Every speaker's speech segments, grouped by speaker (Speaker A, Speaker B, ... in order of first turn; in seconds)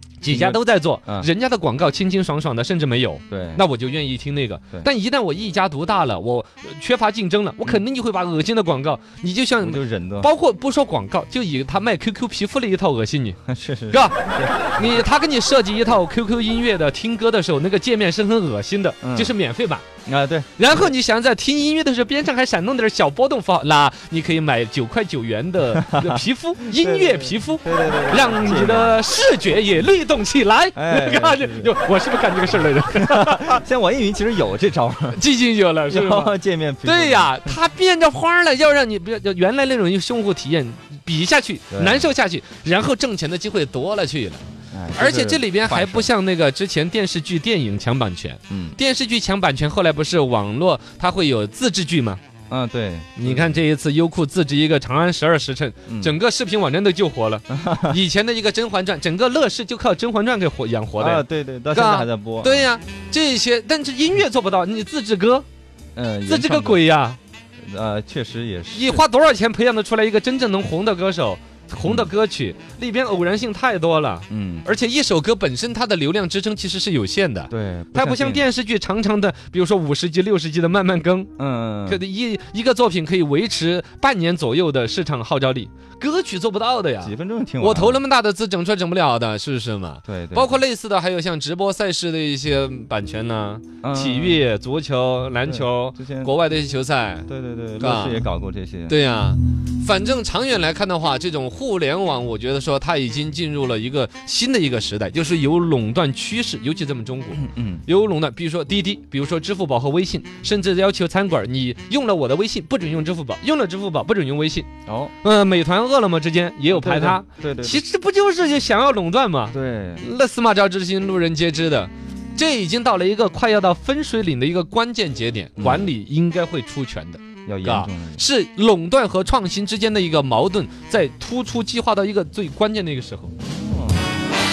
Speaker A: 0.2-13.4, 13.9-19.8, 20.6-33.6, 35.1-44.4, 45.0-52.2, 53.2-65.5, 66.3-67.2, 68.7-81.3, 81.9-97.3, 97.8-98.2, 98.9-114.7, 115.2-133.3
Speaker B: 0.3-1.3, 3.3-3.6, 9.6-10.3, 13.5-14.5, 19.0-19.3, 20.1-20.9, 25.7-29.0, 30.8-31.7, 32.9-35.2, 35.9-37.6, 41.7-42.1, 44.7-46.1, 48.5-48.8, 52.5-53.6, 55.9-56.1, 57.5-58.0, 61.0-62.7, 65.9-66.8, 67.6-69.0, 74.3-74.7, 77.5-78.4, 81.4-82.0, 87.0-88.0, 90.0-90.6, 93.8-94.4, 95.4-96.3, 97.3-98.9, 107.3-107.8, 114.9-115.1, 116.7-117.8, 119.5-120.0, 125.6-125.9, 127.5-128.2, 133.4-134.2